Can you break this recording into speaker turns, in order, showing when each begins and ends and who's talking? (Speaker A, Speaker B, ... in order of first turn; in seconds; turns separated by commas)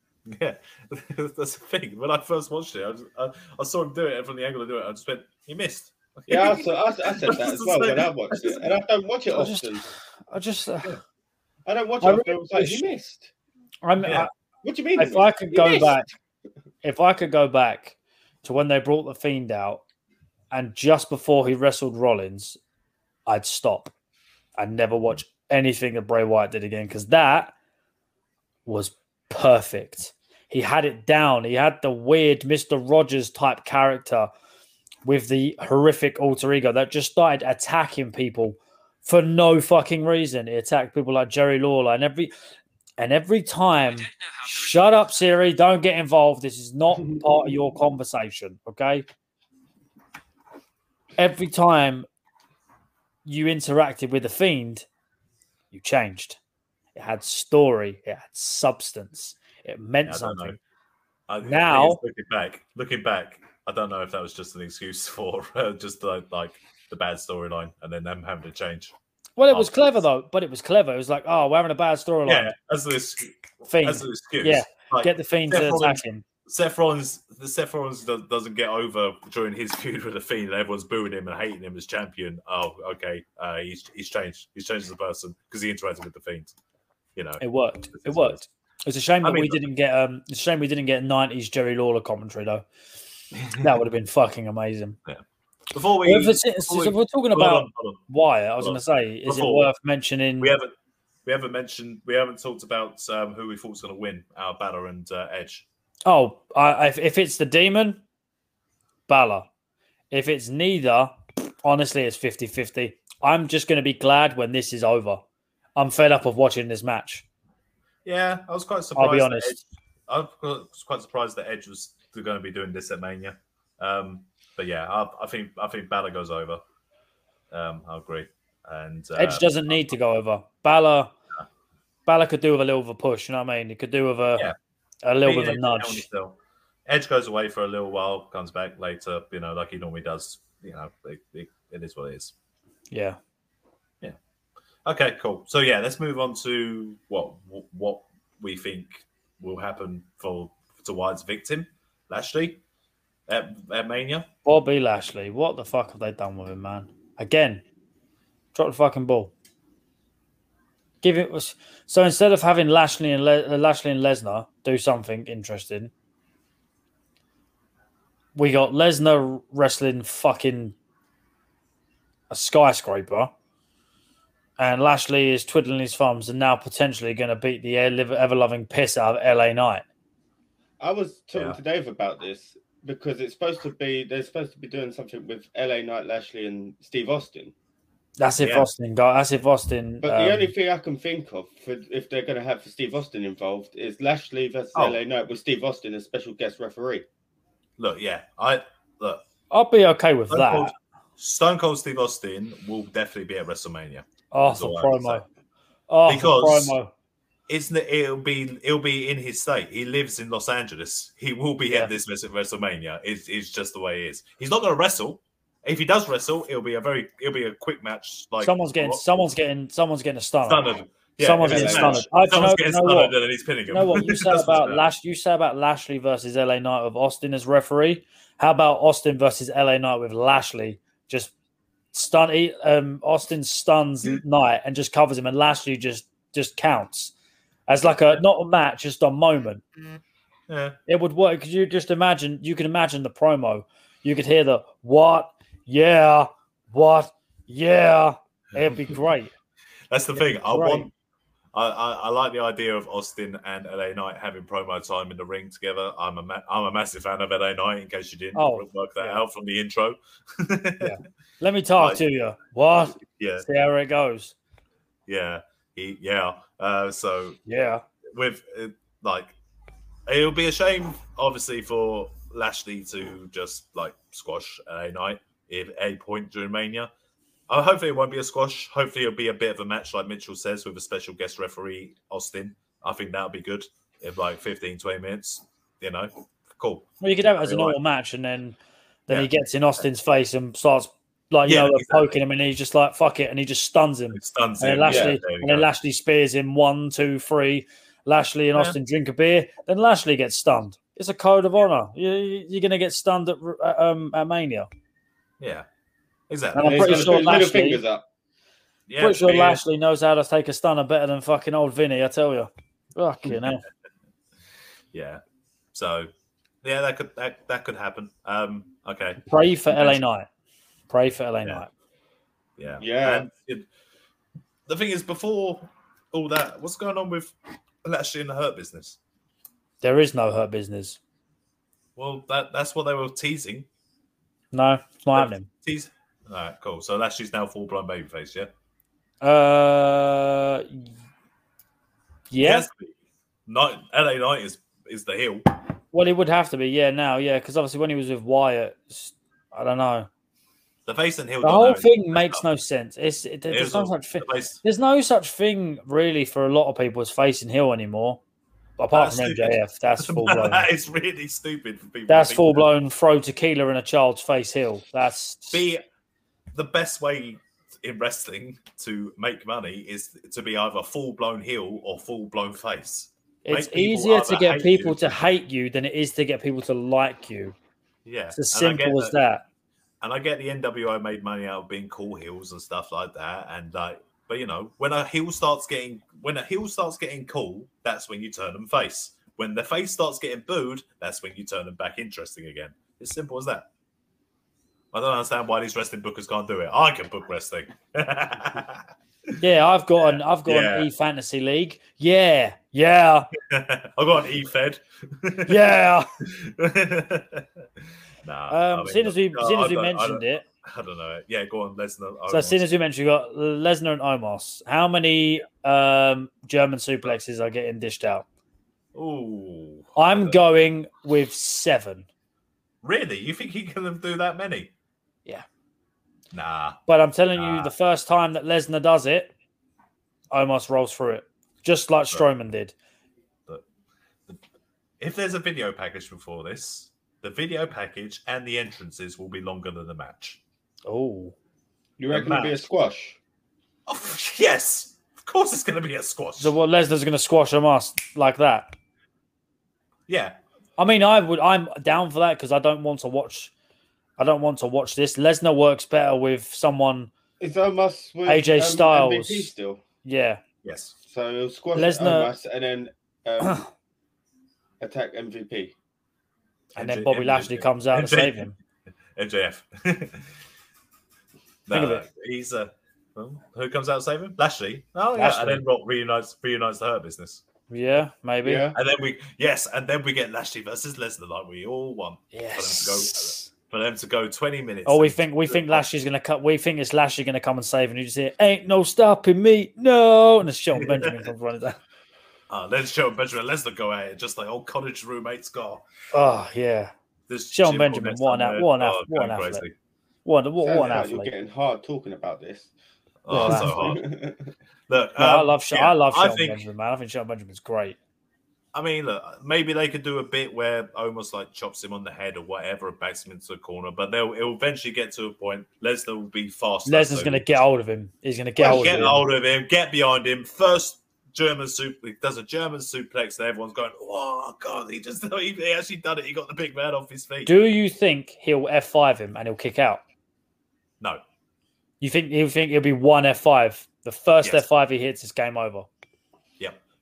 Speaker A: 0.2-8.7, Speaker B: 6.3-9.8, Speaker C: 9.3-9.7, Speaker C: 10.3-11.0, Speaker B: 11.7-13.3, Speaker C: 12.0-12.8, Speaker C: 13.8-14.3, Speaker A: 14.0-14.3, Speaker B: 14.6-15.9, Speaker C: 15.0-16.1, Speaker C: 16.8-19.8, Speaker C: 20.5-22.6, Speaker C: 23.3-23.9, Speaker C: 24.6-27.5, Speaker C: 28.6-34.3, Speaker C: 35.0-42.3, Speaker C: 43.0-49.0, Speaker C: 51.2-52.1, Speaker C: 53.2-54.9, Speaker C: 55.7-56.4, Speaker C: 56.9-60.6, Speaker A: 60.0-60.6, Speaker A: 61.3-68.9, Speaker C: 61.4-62.0, Speaker C: 69.4-72.5, Speaker A: 72.2-86.5, Speaker C: 73.7-76.2, Speaker A: 87.2-87.4, Speaker C: 87.4-92.6, Speaker A: 87.9-88.4, Speaker A: 89.2-89.6, Speaker A: 93.3-93.8, Speaker C: 93.6-95.0, Speaker A: 95.0-98.1, Speaker C: 96.0-100.5, Speaker A: 98.6-99.7, Speaker A: 100.4-100.7, Speaker A: 101.2-105.7, Speaker C: 106.0-108.0, Speaker C: 109.1-109.5, Speaker C: 110.1-115.2, Speaker C: 115.8-117.2, Speaker A: 118.0-126.6, Speaker C: 119.0-119.6, Speaker A: 127.5-129.8, Speaker C: 129.2-131.1, Speaker C: 132.1-134.5, Speaker C: 135.0-136.1, Speaker A: 135.2-142.3, Speaker C: 142.9-143.2, Speaker A: 144.8-152.6, Speaker A: 153.3-154.3, Speaker C: 154.4-157.6, Speaker C: 158.5-159.3, Speaker C: 161.0-165.9, Speaker C: 168.3-170.8, Speaker C: 172.3-173.3, Speaker C: 174.6-179.8, Speaker B: 180.8-187.5, Speaker C: 188.2-190.5, Speaker A: 188.4-188.7, Speaker B: 190.0-197.0, Speaker A: 197.8-199.2, Speaker C: 199.5-200.7, Speaker A: 200.3-205.2, Speaker C: 204.3-205.2, Speaker C: 205.9-206.9, Speaker A: 206.1-206.7, Speaker A: 207.5-219.0, Speaker C: 218.4-220.6, Speaker A: 220.4-224.8, Speaker C: 221.2-223.1, Speaker B: 221.4-222.1, Speaker C: 223.7-231.3, Speaker C: 231.9-237.1, Speaker C: 237.7-239.6, Speaker A: 240.5-240.8, Speaker C: 240.9-249.3, Speaker A: 248.5-248.9, Speaker A: 249.9-250.9, Speaker C: 250.2-250.9, Speaker A: 251.5-260.9, Speaker C: 258.3-259.2, Speaker C: 260.8-264.3, Speaker A: 261.8-262.0, Speaker A: 263.0-263.4, Speaker A: 265.1-267.4, Speaker C: 267.4-267.8, Speaker A: 268.1-269.3, Speaker A: 270.1-276.9, Speaker A: 277.5-286.9, Speaker C: 287.0-304.7, Speaker A: 287.4-287.8, Speaker A: 291.4-292.0, Speaker A: 294.1-295.7, Speaker B: 294.9-295.1, Speaker A: 305.4-305.7, Speaker A: 306.3-307.2, Speaker C: 306.5-307.8, Speaker B: 306.6-308.0, Speaker A: 308.9-309.6, Speaker C: 309.0-313.6, Speaker A: 314.9-315.2, Speaker A: 315.7-316.1, Speaker A: 316.6-320.0, Speaker C: 319.2-320.3, Speaker C: 320.9-321.7, Speaker A: 322.6-323.7, Speaker B: 322.8-323.3, Speaker A: 324.7-329.0, Speaker C: 329.8-331.0, Speaker A: 331.9-333.7, Speaker C: 334.5-335.5, Speaker A: 335.1-338.5, Speaker C: 339.2-340.9, Speaker C: 342.3-342.7, Speaker A: 342.4-342.9, Speaker A: 343.5-345.5, Speaker C: 345.9-350.1, Speaker A: 350.9-352.4, Speaker C: 351.4-358.2, Speaker A: 353.5-354.6, Speaker C: 358.8-360.6, Speaker A: 358.9-362.7, Speaker C: 362.1-365.6, Speaker A: 365.5-365.8, Speaker A: 366.5-375.1, Speaker C: 373.4-377.5, Speaker A: 378.0-379.1, Speaker C: 378.3-379.4, Speaker A: 380.0-393.7, Speaker A: 394.9-399.3, Speaker C: 399.4-403.3, Speaker A: 400.0-400.9, Speaker A: 403.4-405.6, Speaker C: 405.4-406.1, Speaker A: 406.2-407.7, Speaker A: 408.2-412.6, Speaker C: 408.5-410.4, Speaker C: 412.3-418.2, Speaker A: 418.9-420.4, Speaker C: 419.9-422.1, Speaker A: 422.8-424.7, Speaker A: 426.3-426.8, Speaker C: 426.9-429.3, Speaker A: 427.4-427.7, Speaker C: 430.3-432.7, Speaker A: 435.0-440.4, Speaker C: 440.9-441.3, Speaker B: 442.0-443.2, Speaker A: 442.1-442.6, Speaker A: 443.9-446.5, Speaker C: 446.4-448.7, Speaker A: 450.1-450.4, Speaker C: 450.8-453.5, Speaker C: 454.2-457.1, Speaker B: 457.4-459.8, Speaker C: 458.3-459.5, Speaker C: 460.0-460.4, Speaker A: 460.6-460.9, Speaker B: 461.1-463.6, Speaker C: 461.7-462.3, Speaker B: 464.8-465.7, Speaker A: 466.7-468.5, Speaker C: 466.8-468.5, Speaker A: 469.1-470.3, Speaker A: 471.7-477.4, Speaker C: 471.7-472.1, Speaker C: 475.1-475.6, Speaker C: 477.7-478.7, Speaker B: 478.4-478.8, Speaker A: 478.7-485.8, Speaker C: 482.3-483.5, Speaker C: 484.9-491.8, Speaker A: 490.8-491.2, Speaker A: 492.5-495.8, Speaker C: 496.1-496.9, Speaker A: 497.3-499.7, Speaker C: 497.5-499.6, Speaker C: 500.2-501.3, Speaker B: 500.6-502.7, Speaker A: 503.2-504.0, Speaker C: 503.3-503.7, Speaker B: 503.4-504.5, Speaker A: 504.9-506.6, Speaker C: 505.2-508.0, Speaker A: 508.7-517.4, Speaker C: 516.9-519.2, Speaker A: 518.6-527.5, Speaker C: 527.5-530.0, Speaker C: 532.0-535.9